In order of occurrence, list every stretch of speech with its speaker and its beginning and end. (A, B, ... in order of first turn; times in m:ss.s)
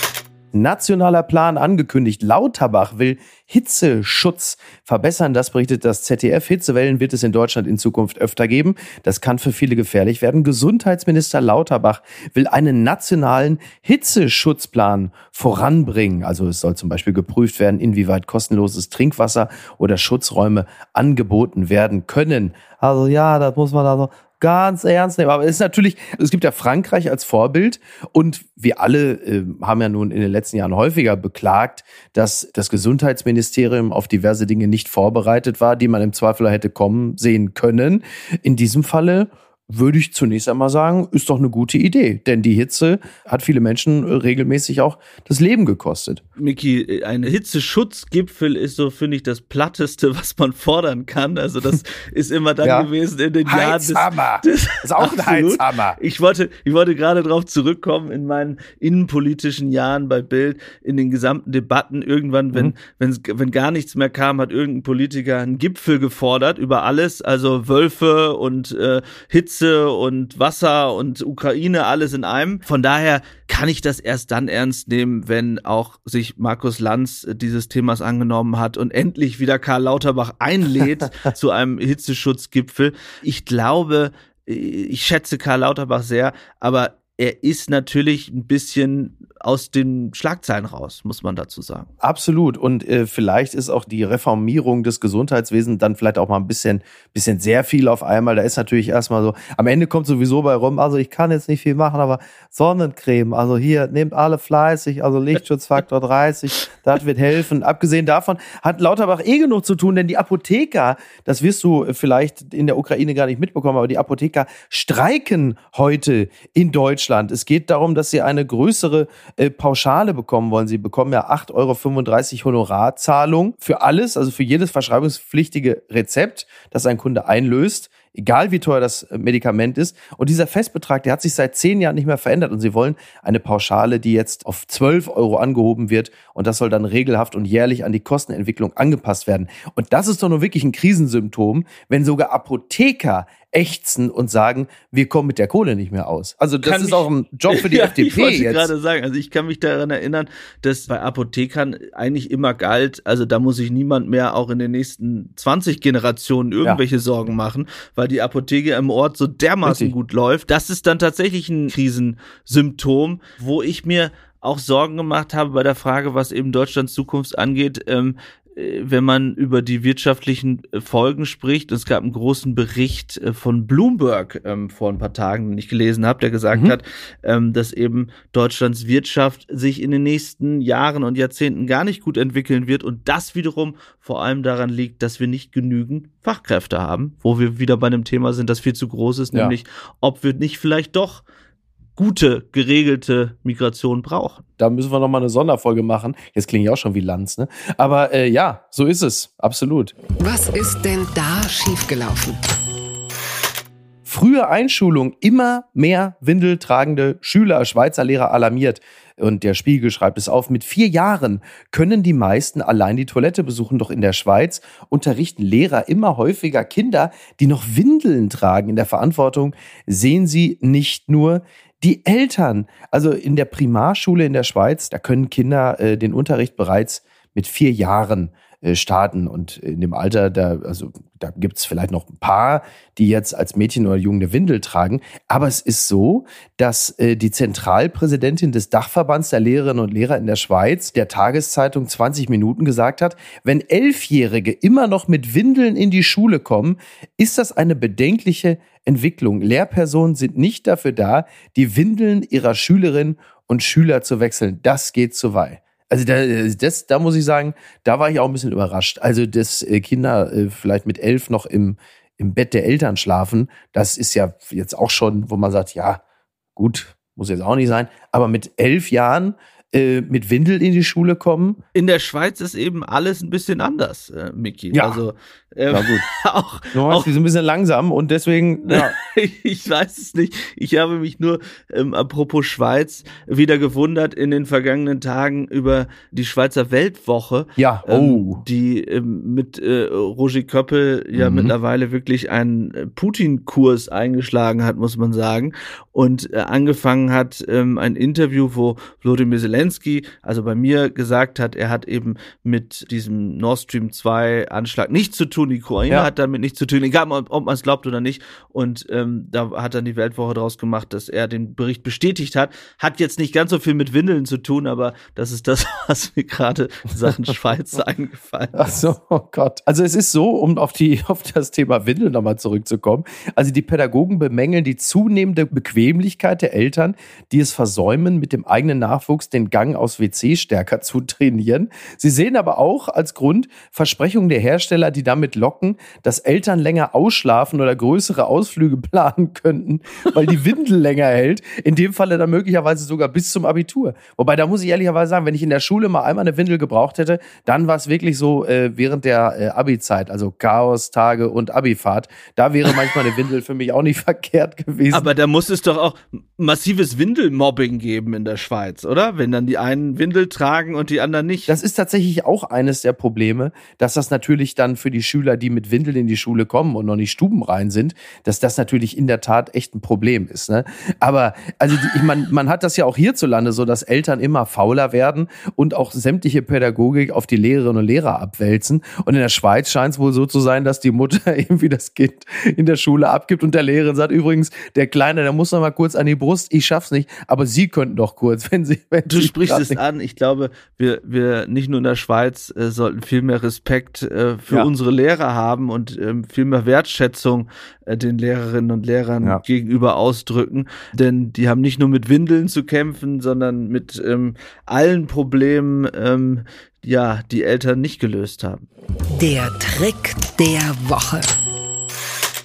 0:00.5-0:46.2 A
0:46.4-1:31.9 B
0:52.6-0:52.9 A
0:53.4-0:56.0 A
1:32.0-2:28.7 A
2:26.6-3:11.2 B
2:39.6-2:39.9 A
3:12.0-3:14.4 B
3:14.6-3:19.9 A
3:20.2-3:22.4 C
3:24.0-4:26.0 A
4:26.6-4:31.6 A
4:31.7-4:37.1 B
4:34.7-4:35.0 A
4:35.7-4:36.0 A
4:36.7-4:38.9 A
4:38.6-5:18.7 B
4:47.6-4:48.4 A
4:51.1-4:51.5 A
5:18.5-5:55.1 A
5:54.9-6:01.5 B
6:01.5-6:29.8 A
6:29.1-6:48.6 B
6:49.1-6:51.3 C